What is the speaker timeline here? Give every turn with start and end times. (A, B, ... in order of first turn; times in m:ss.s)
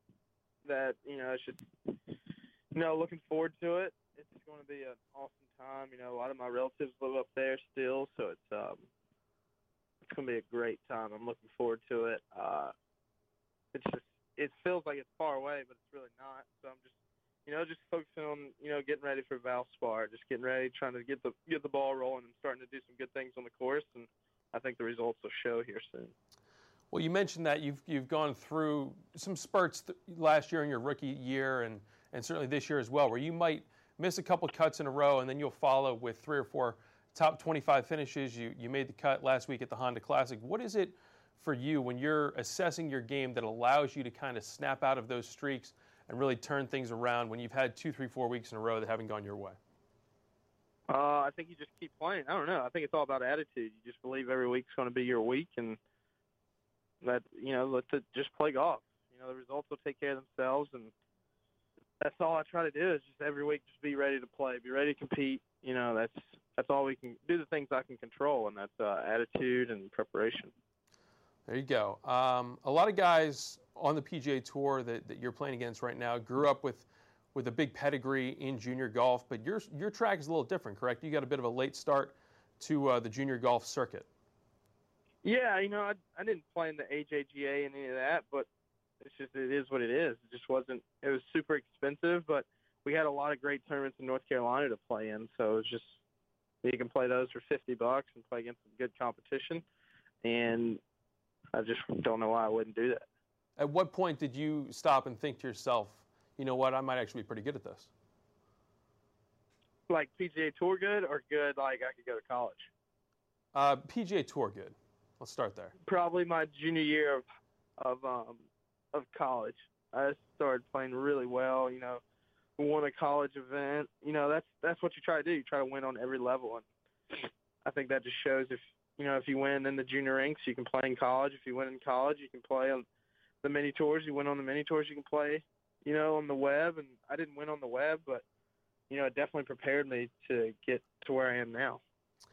0:00.6-0:02.2 A
0:02.7-0:08.9 A
0:10.0-0:12.7 A
0:13.7-0:16.9 A
0:17.5-0:26.1 A
0:26.9-0:49.6 B
0:50.9-0:55.8 A
0:57.0-1:00.9 A
1:02.0-1:10.5 A
1:11.5-1:24.1 B
1:25.2-1:28.5 A
1:29.0-1:36.0 A
1:36.6-1:39.6 A
1:40.2-1:40.8 A
1:41.5-1:43.1 A
1:43.6-1:47.9 B
1:49.9-1:52.7 A
1:53.5-1:55.8 B
1:55.8-1:57.2 A
1:57.8-2:02.0 A
2:02.6-2:12.8 A
2:13.4-2:18.2 A
2:18.9-2:21.8 A